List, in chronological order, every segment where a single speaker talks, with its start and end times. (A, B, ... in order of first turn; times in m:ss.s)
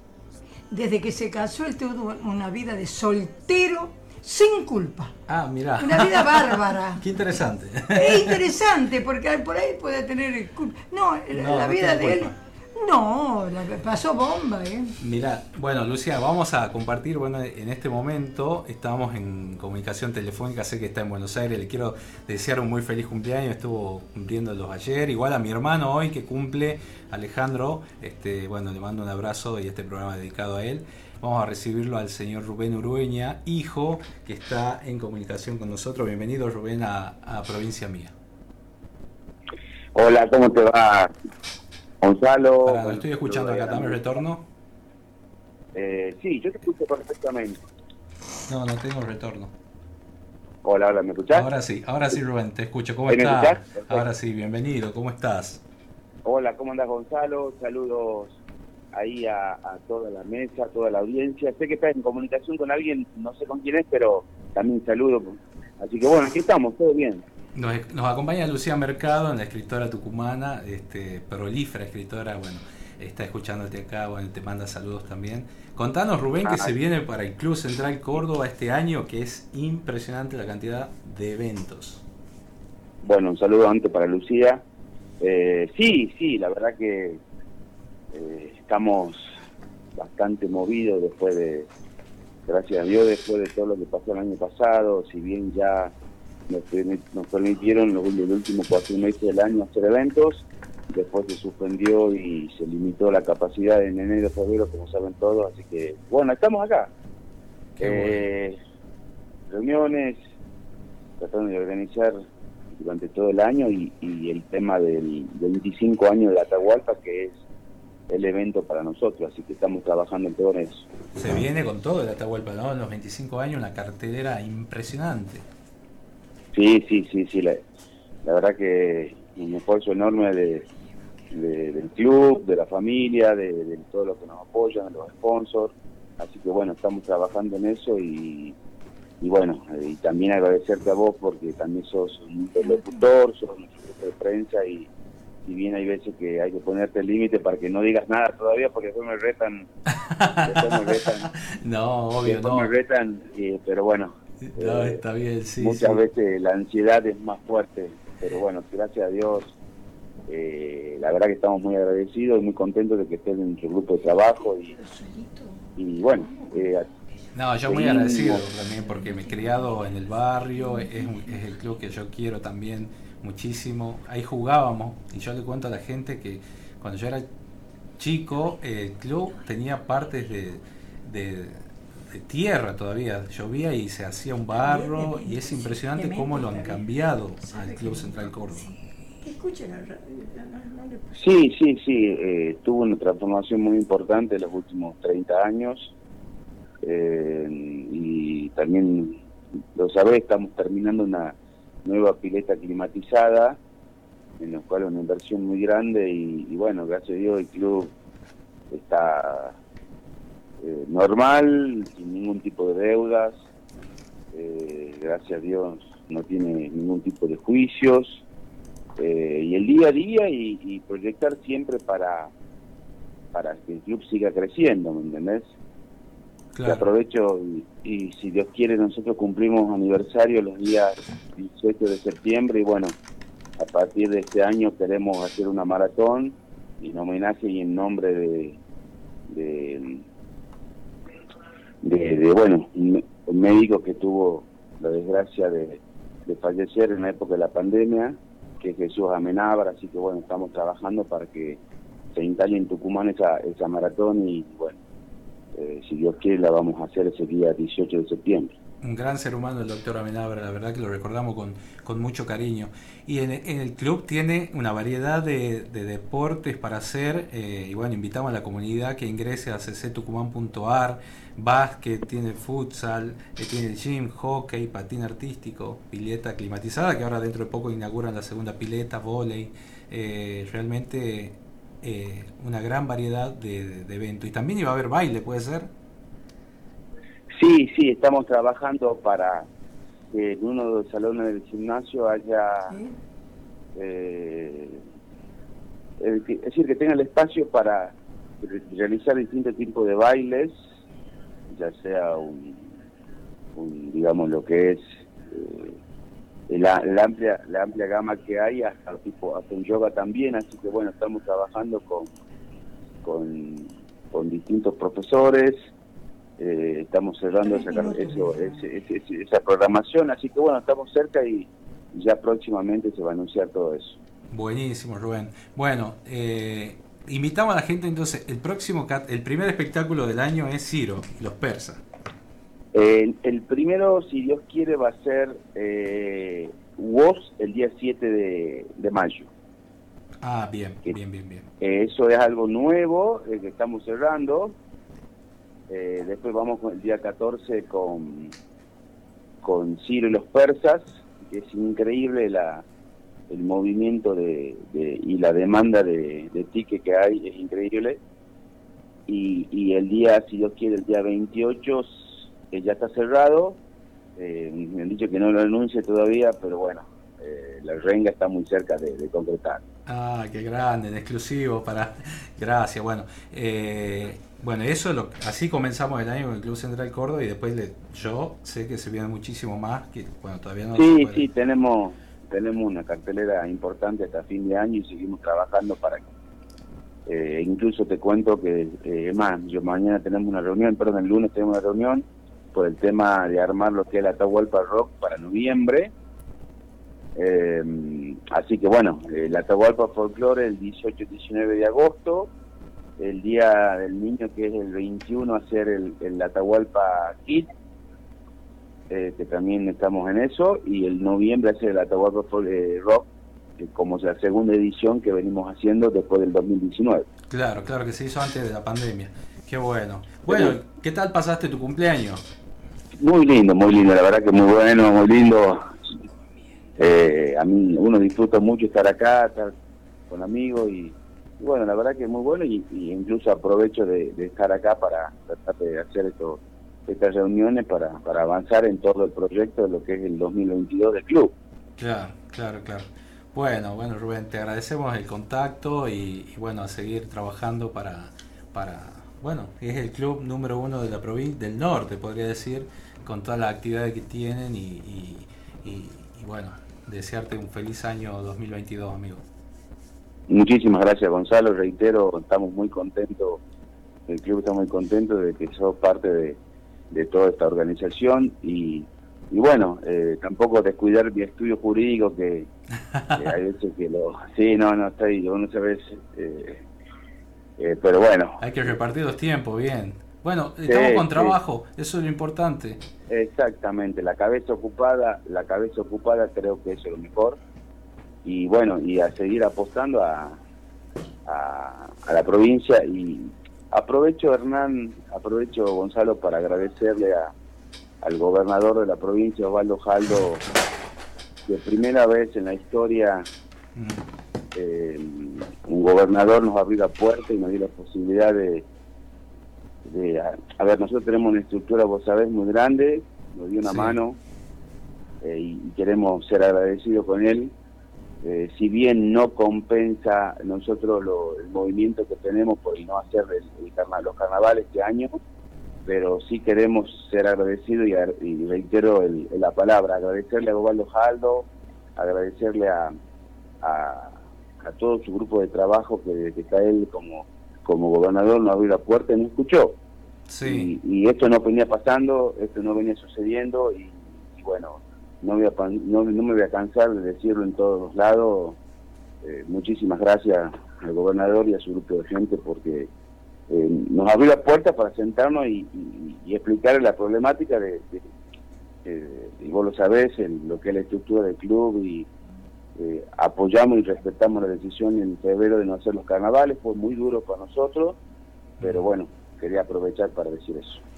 0:00.7-0:05.1 A
0:05.3-0:08.4 B
0:05.8-0:07.0 A
0:07.9-0:15.0 A
0:11.3-0:12.4 B
0:15.0-0:38.1 B
0:39.9-0:41.1 C
0:42.0-0:44.0 C
0:42.6-0:44.4 B
0:45.7-0:47.6 C
0:48.5-0:49.5 B
0:50.6-0:51.5 C
0:51.3-0:55.6 B
0:53.1-0:54.0 C
0:56.2-0:58.3 C
0:58.9-1:07.2 C
1:07.5-1:22.0 B
1:16.4-1:16.7 C
1:23.0-1:24.6 C
1:25.2-1:27.2 C
1:28.1-1:29.2 C
1:29.9-1:31.7 C
1:32.5-1:35.9 C
1:36.5-1:46.9 C
1:47.8-1:48.2 B
1:47.8-1:48.6 C
1:49.5-1:50.2 C
1:51.2-1:52.2 C
1:52.8-1:57.4 C
1:58.1-2:00.8 C
2:01.1-2:05.4 B
2:06.5-2:07.6 C
2:08.2-2:10.6 C
2:11.3-2:18.5 C
2:19.2-2:24.9 C
2:22.6-2:23.0 A
2:25.4-2:29.7 C
2:30.0-2:32.7 B
2:30.4-2:31.3 C
2:32.2-2:35.0 C
2:34.4-2:36.0 B
2:35.6-2:39.5 C
2:40.3-2:44.7 C
2:44.7-2:46.7 A
2:45.8-2:46.8 C
2:47.3-2:57.2 B
2:47.7-2:48.4 C
2:48.9-2:49.7 A
2:50.6-2:51.3 A
2:58.0-3:08.7 B
3:04.6-3:06.8 A
3:07.5-3:08.7 A
3:09.2-3:11.2 A
3:11.2-3:15.9 C
3:16.8-3:19.2 C
3:19.8-3:23.6 C
3:24.4-3:27.9 C
3:28.7-3:29.5 C
3:30.6-3:33.4 C
3:34.3-3:38.2 C
3:39.0-3:42.3 C
3:43.3-3:45.5 C
3:46.5-3:46.8 B
3:46.6-3:52.9 C
3:53.6-3:58.6 C
3:59.3-4:00.0 C
4:01.8-4:11.6 C
4:12.1-4:14.8 C
4:15.6-4:18.5 C
4:18.8-4:45.7 B
4:47.3-4:49.5 C
4:50.1-4:52.8 C
4:52.7-4:52.9 A
4:53.8-4:54.8 C
4:56.0-5:00.6 C
5:01.5-5:02.7 C
5:03.5-5:05.8 C
5:06.5-5:12.1 C
5:13.0-5:15.6 C
5:16.4-5:24.0 C
5:17.4-5:18.6 A
5:24.3-5:31.8 B
5:32.7-5:39.3 C
5:40.2-5:41.4 B
5:41.6-5:44.6 C
5:45.7-5:48.3 C
5:49.4-5:52.6 C
5:53.3-5:58.0 C
5:59.1-6:03.6 C
6:04.2-6:09.6 C
6:09.8-6:21.2 B
6:20.8-6:26.0 C
6:27.1-6:35.9 C
6:37.2-6:42.3 C
6:43.0-6:47.5 C
6:48.9-6:53.1 C
6:53.6-6:57.0 C
6:57.3-7:02.2 B
7:00.3-7:00.6 C
7:03.0-7:05.6 C
7:06.8-7:09.5 C
7:10.1-7:21.3 C
7:21.8-7:39.2 B
7:40.3-7:43.4 C
7:44.1-7:46.4 C
7:46.9-7:52.5 C
7:52.9-7:53.2 B
7:53.1-7:56.6 C
7:57.6-7:58.4 C
7:58.4-8:02.8 B
8:00.7-8:01.4 C
8:03.1-8:07.4 C
8:08.2-8:10.4 C
8:11.2-8:17.3 C
8:18.0-8:20.4 C
8:21.5-8:23.2 C
8:23.8-8:24.0 B
8:24.5-8:28.6 C
8:29.9-8:34.2 C
8:33.6-8:34.0 B
8:35.2-8:37.5 C
8:38.2-8:45.2 C
8:45.8-8:51.4 C
8:52.0-8:52.9 C
8:53.6-8:59.8 C
9:00.3-9:00.7 B
9:00.4-9:08.6 C
9:09.2-9:12.9 C
9:13.5-9:18.0 C
9:18.8-9:22.1 C
9:22.8-9:28.0 C
9:28.6-9:28.8 B
9:28.6-9:30.8 C